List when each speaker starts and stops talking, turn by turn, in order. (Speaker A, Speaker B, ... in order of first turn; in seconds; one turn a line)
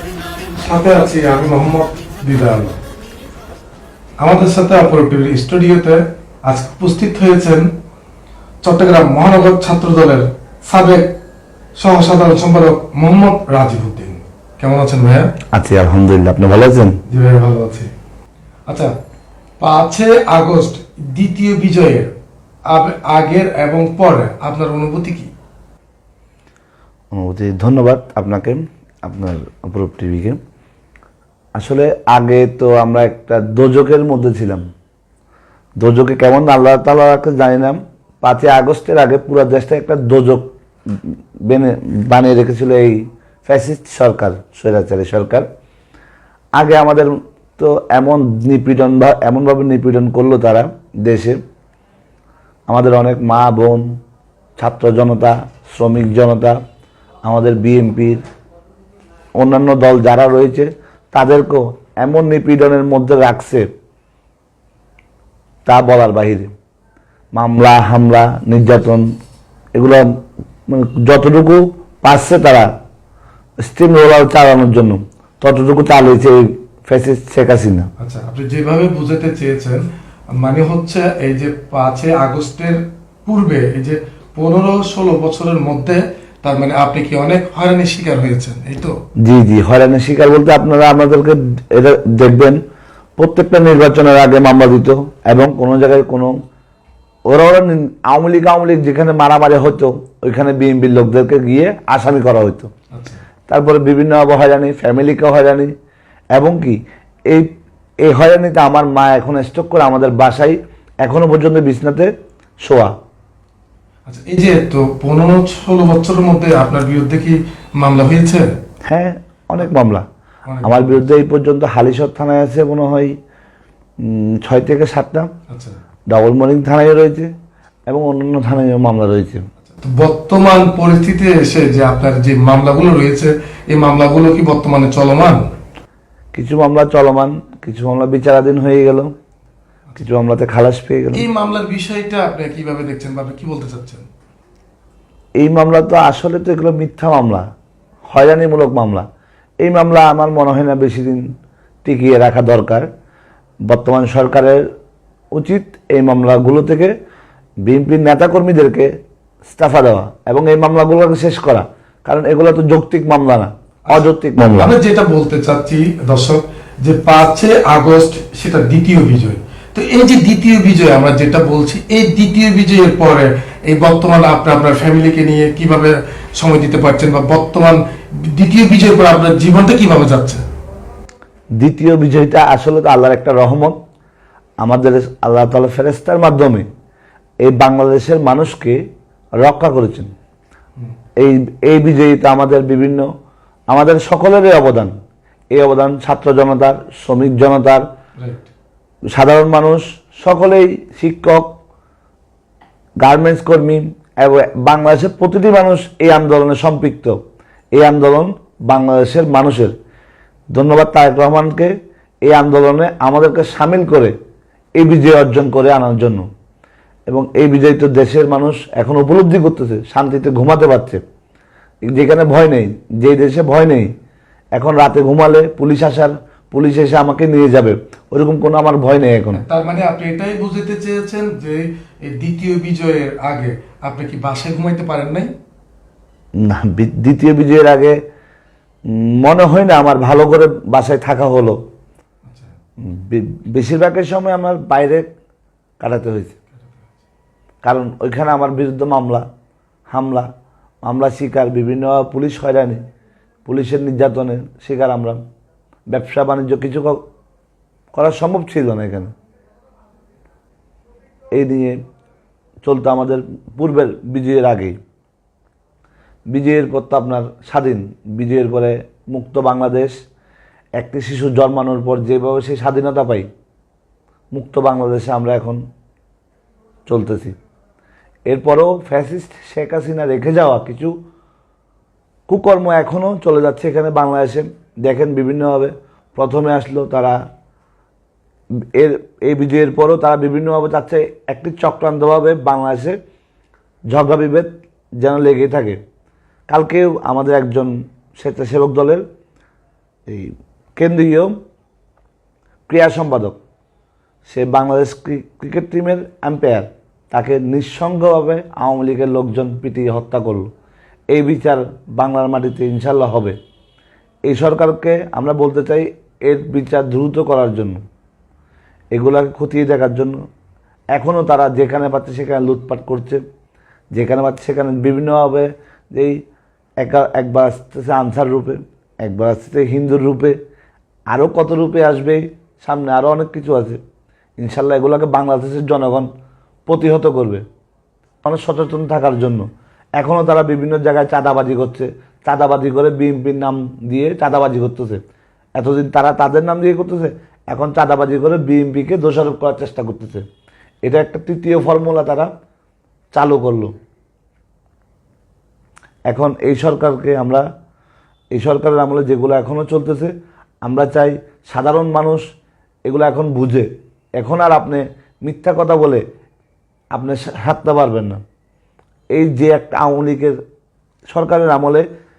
Speaker A: 0.6-2.8
Speaker A: 4.2-7.7
Speaker A: 8.6-11.1
Speaker A: 11.8-15.3
Speaker B: 15.5-17.0
Speaker A: 17.1-17.9
Speaker A: 19.6-22.1
Speaker A: 22.7-25.3
Speaker B: 27.1-30.4
Speaker B: 31.6-34.6
Speaker B: 35.8-45.5
Speaker B: 46.6-51.4
Speaker B: 52.7-53.9
Speaker B: 54.6-56.6
Speaker B: 57.3-58.2
Speaker B: 59.4-63.7
Speaker B: 65.7-66.5
Speaker B: 67.3-69.1
Speaker B: 69.8-70.1
Speaker B: 70.7-72.7
Speaker B: 73.6-77.9
Speaker A: 78.0-79.8
Speaker A: 80.4-88.9
Speaker B: 89.2-92.6
Speaker B: 93.2-96.3
Speaker B: 97.3-102.7
Speaker A: 102.9-103.2
Speaker B: 103.5-105.7
Speaker B: 106.3-106.8
Speaker B: 108.0-112.1
Speaker B: 112.6-113.0
Speaker A: 114.1-118.5
Speaker B: 118.9-120.1
Speaker A: 120.5-121.0
Speaker B: 120.6-123.2
Speaker B: 124.0-125.3
Speaker A: 125.5-125.8
Speaker B: 126.1-127.3
Speaker B: 127.9-129.4
Speaker A: 129.7-135.4
Speaker B: 136.3-139.1
Speaker B: 140.0-141.2
Speaker A: 141.1-144.1
Speaker B: 145.4-147.5
Speaker B: 148.1-149.1
Speaker B: 149.6-151.3
Speaker B: 151.8-152.9
Speaker B: 153.7-154.7
Speaker B: 155.3-156.9
Speaker B: 157.6-158.9
Speaker B: 159.5-164.8
Speaker A: 163.9-177.8
Speaker A: 178.3-180.4
Speaker B: 181.6-183.8
Speaker B: 184.6-186.7
Speaker B: 187.4-188.8
Speaker B: 189.4-190.1
Speaker B: 191.2-193.1
Speaker B: 193.7-194.9
Speaker B: 195.5-197.9
Speaker A: 198.2-198.5
Speaker B: 199.1-201.6
Speaker B: 203.0-207.2
Speaker B: 207.8-209.7
Speaker B: 210.5-211.7
Speaker B: 212.2-214.1
Speaker B: 214.8-216.3
Speaker B: 217.1-221.0
Speaker B: 221.8-223.9
Speaker B: 224.6-229.4
Speaker A: 229.3-235.3
Speaker B: 236.4-238.0
Speaker B: 238.9-241.6
Speaker A: 242.3-242.5
Speaker B: 242.8-245.1
Speaker B: 245.8-246.4
Speaker A: 246.6-246.9
Speaker B: 247.6-249.3
Speaker B: 249.9-250.3
Speaker B: 250.8-252.8
Speaker B: 253.5-255.2
Speaker B: 255.9-257.0
Speaker B: 257.9-259.1
Speaker B: 261.3-261.8
Speaker B: 262.6-264.8
Speaker B: 266.3-270.0
Speaker B: 270.8-273.3
Speaker B: 274.3-275.6
Speaker B: 276.9-277.3
Speaker B: 278.3-281.0
Speaker B: 282.3-287.2
Speaker B: 288.7-293.0
Speaker B: 293.9-295.8
Speaker B: 296.5-299.0
Speaker B: 300.1-301.3
Speaker B: 302.7-303.4
Speaker B: 304.3-310.5
Speaker B: 311.1-313.4
Speaker B: 314.3-317.8
Speaker B: 318.9-320.2
Speaker B: 320.9-323.2
Speaker B: 323.9-326.2
Speaker B: 326.8-330.4
Speaker B: 331.1-333.8
Speaker B: 334.4-336.1
Speaker B: 336.7-337.4
Speaker B: 338.2-339.5
Speaker B: 340.0-345.0
Speaker B: 345.6-350.2
Speaker B: 350.8-352.3
Speaker B: 353.1-353.7
Speaker B: 356.1-357.4
Speaker B: 358.3-360.1
Speaker B: 360.6-362.2
Speaker B: 362.9-366.0
Speaker B: 366.9-368.2
Speaker B: 369.1-370.4
Speaker B: 371.1-371.9